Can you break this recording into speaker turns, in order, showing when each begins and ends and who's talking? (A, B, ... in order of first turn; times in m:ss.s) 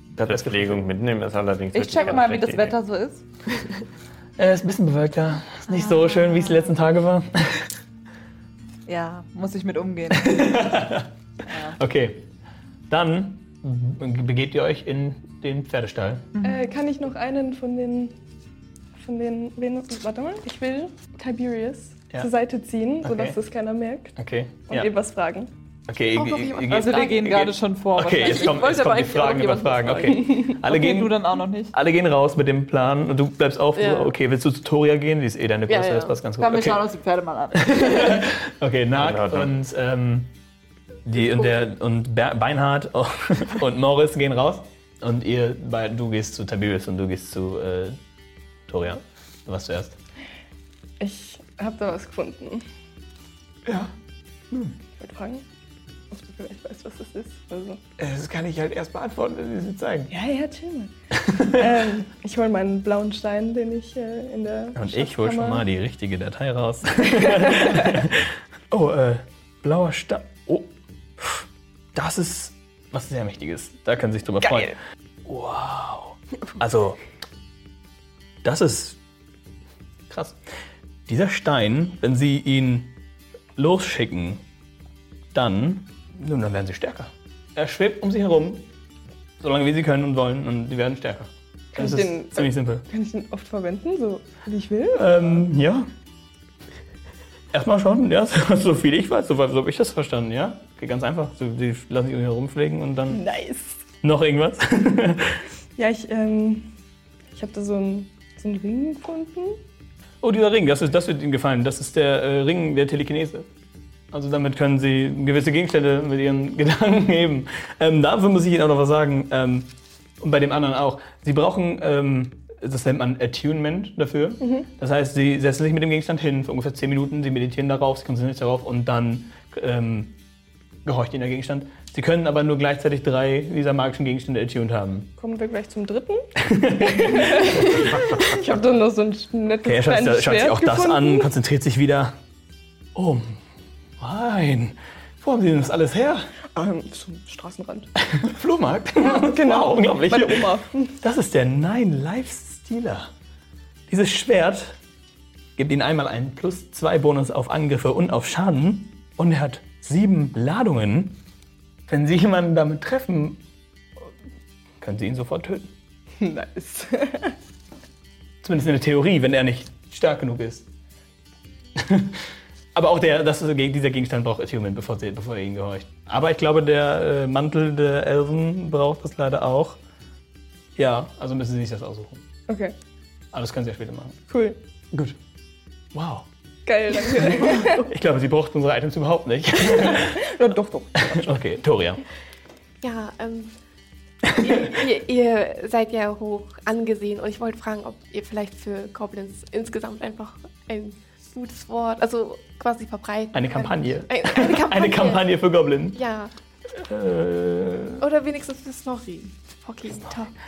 0:00.2-0:02.8 A
0:00.3-0:00.8 B
0:01.7-0:03.2 C
0:04.4-0:07.7 B
0:05.7-0:06.7 C
0:08.9-0:10.6 C
0:10.1-0:11.1 B
0:11.5-0:11.8 C
0:11.8-0:12.3 B
0:12.9-0:16.3 B
0:16.3-0:16.6 C
0:16.4-0:18.1 D
0:19.0-0:25.5 D
0:23.0-0:23.4 B
0:24.2-0:24.9 B
0:25.9-0:36.8 B
0:26.1-0:27.2 E
0:26.7-0:31.7 C
0:28.2-0:29.8 E
0:30.2-0:30.5 D
0:33.8-0:34.1 E
0:35.7-0:36.1 E
0:36.4-0:38.2 C
0:37.5-0:40.3 B
0:38.9-0:39.5 A
0:41.0-0:48.0 B
0:48.7-0:50.0 B
0:51.0-0:52.6 D
0:53.6-0:53.9 B
0:55.0-0:55.4 D
0:56.1-0:57.8 D
0:58.0-1:00.1 B
1:00.1-1:00.9 D
1:01.2-1:01.7 B
1:01.4-1:05.6 D
1:04.8-1:17.0 B
1:07.2-1:07.8 D
1:14.4-1:14.7 D
1:18.4-1:19.0 B
1:20.1-1:20.4 B
1:21.1-1:22.9 B
1:23.6-1:24.4 B
1:25.3-1:28.7 B
1:29.4-1:32.8 B
1:31.7-1:35.2 D
1:34.9-1:35.9 B
1:37.5-1:43.2 B
1:43.1-1:43.8 D
1:44.0-1:45.4 B
1:45.8-1:46.7 D
1:47.3-1:49.6 D
1:50.2-1:53.5 B
1:54.1-1:59.7 B
2:00.2-2:10.2 B
2:04.4-2:04.7 D
2:10.8-2:15.1 B
2:15.2-2:16.3 D
2:16.4-2:18.2 B
2:16.8-2:21.3 D
2:19.6-2:22.1 B
2:22.9-2:23.4 B
2:24.0-2:26.3 B
2:26.5-2:27.9 D
2:28.1-2:33.1 B
2:29.0-2:30.9 D
2:33.9-2:34.8 B
2:35.6-2:41.2 B
2:41.9-2:43.4 B
2:44.8-2:45.7 B
2:46.2-2:47.3 D
2:48.4-2:50.7 B
2:51.8-2:52.2 B
2:52.7-2:59.8 B
3:00.8-3:02.2 B
3:02.5-3:02.7 D
3:03.3-3:04.2 B
3:04.3-3:04.6 D
3:05.9-3:06.2 B
3:06.6-3:07.9 D
3:07.0-3:10.2 B
3:09.6-3:11.3 D
3:11.0-3:12.0 B
3:12.8-3:13.5 E
3:14.3-3:25.2 E
3:23.3-3:26.0 B
3:25.9-3:26.3 E
3:26.7-3:28.0 B
3:28.0-3:30.3 E